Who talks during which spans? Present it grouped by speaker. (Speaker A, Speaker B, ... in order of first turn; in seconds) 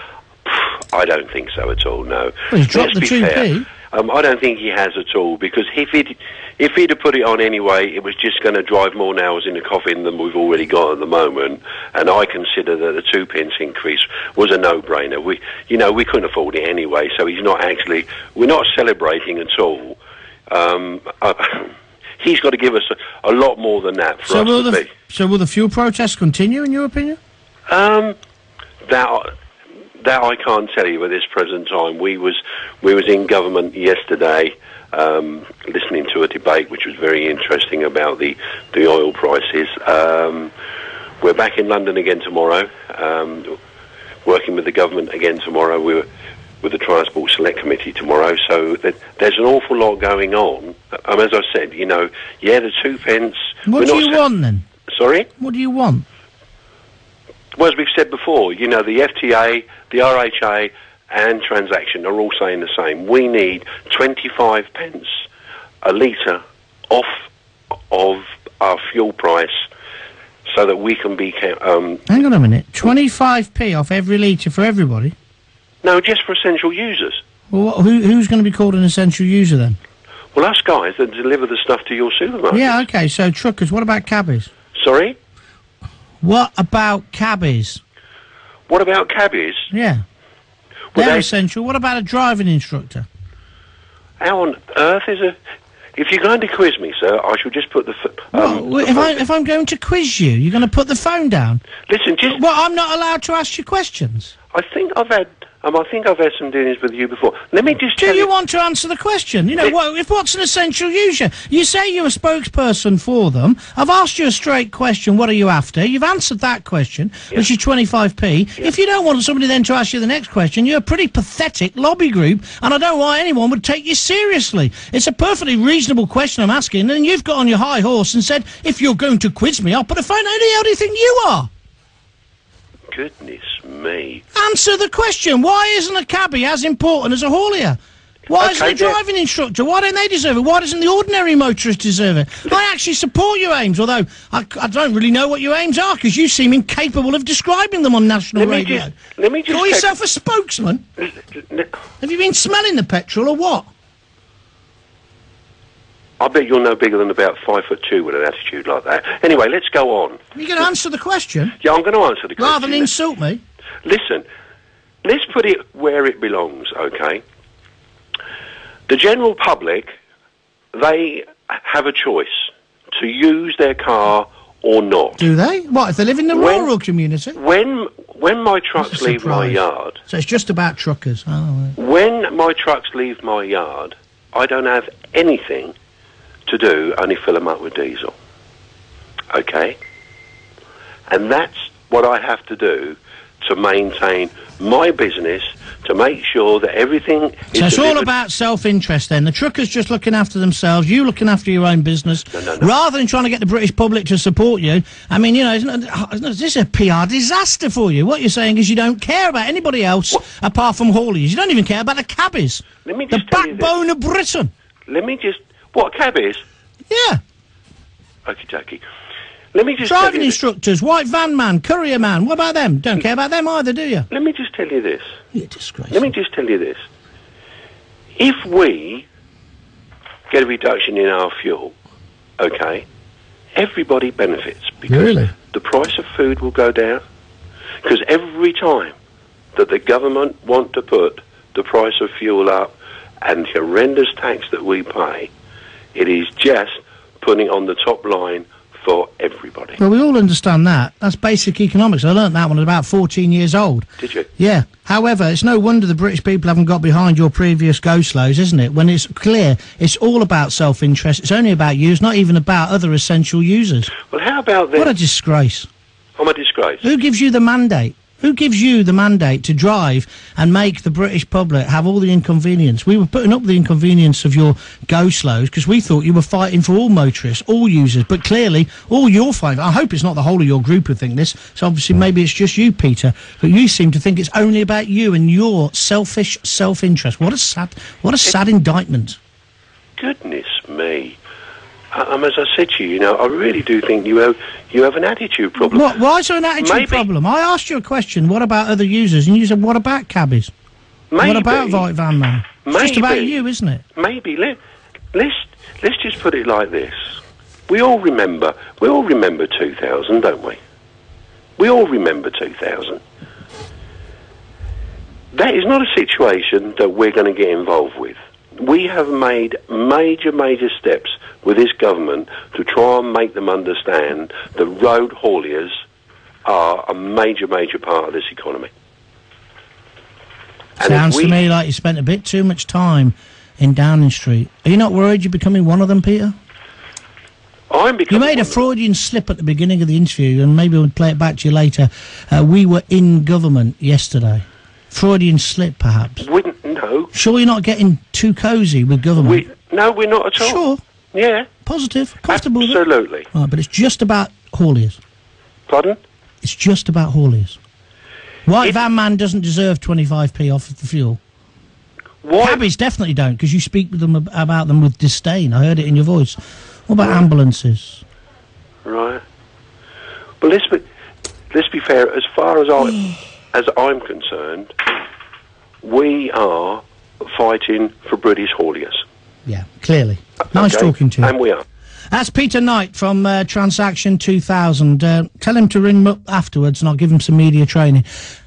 Speaker A: 0.4-20.0, 20.5-24.9, 27.7-28.2, 28.9-29.3, 30.0-40.5, 41.2-43.6, 44.2-46.0, 46.6-54.2, 54.9-55.3, 57.5-65.1, 65.8-67.2, 67.9-69.6, 70.5-72.1, 75.8-77.2, 80.3-82.8, 84.7-85.2, 88.7-89.7, 90.9-91.3, 94.2-95.4, 96.0-99.2, 101.8-102.4, 104.5-108.3, 132.9-134.2, 138.3-139.0, 148.3-149.9, 151.0-151.7, 156.2-160.2, 161.6-162.9, 163.8-164.2, 165.0-167.2, 168.9-169.9, 170.7-175.2, 176.3-176.7, 177.3-180.0, 181.8-185.7, 186.5-188.1, 189.3-189.8, 191.1-198.1, 202.3-202.7, 212.8-213.7, 214.9-216.4, 218.2-218.8, 219.5-220.4, 224.1-225.0, 225.9-226.8, 228.2-229.1, 230.3-231.7, 232.4-232.8, 233.6-237.0, 237.8-238.9, 239.5-245.3, 245.9-249.8, 254.0-254.3, 264.1-264.9, 266.2-266.8, 290.0-291.2, 291.9-296.0, 296.6-297.1, 301.1-301.9, 302.6-303.4, 303.9-304.6, 305.1-307.1, 307.7-310.6, 311.6-313.0, 315.3-325.7, 326.4-328.7, 330.8-331.4, 337.7-338.6, 346.2-347.1, 349.2-350.6, 351.1-351.5, 352.3-353.3, 355.7-356.0, 362.2-362.6, 367.0-367.2, 368.8-369.2, 370.4-370.8, 371.5-374.7, 375.8-379.0, 380.5-381.6
Speaker B: 2.5-3.7, 24.3-27.2, 53.6-54.6, 55.4-56.0, 72.1-75.1, 77.5-79.8, 82.5-84.5, 86.2-87.8, 89.7-90.0, 90.9-93.1, 98.3-101.7, 102.3-104.3, 108.0-131.5, 134.3-148.9, 149.5-150.8, 152.0-153.7, 160.3-161.6, 162.4-163.4, 175.2-177.4, 178.8-181.8, 197.5-214.5, 216.9-217.2, 219.8-224.1, 225.3-226.1, 234.9-235.3, 249.8-263.9, 264.8-265.7, 266.8-289.2, 295.6-300.5, 301.2-303.8, 330.8-336.3, 338.1-346.2, 347.1-349.4, 350.4-350.8, 351.6-355.0, 356.4-357.6, 358.4-361.2, 362.4-368.0, 379.4-381.3, 382.1-388.1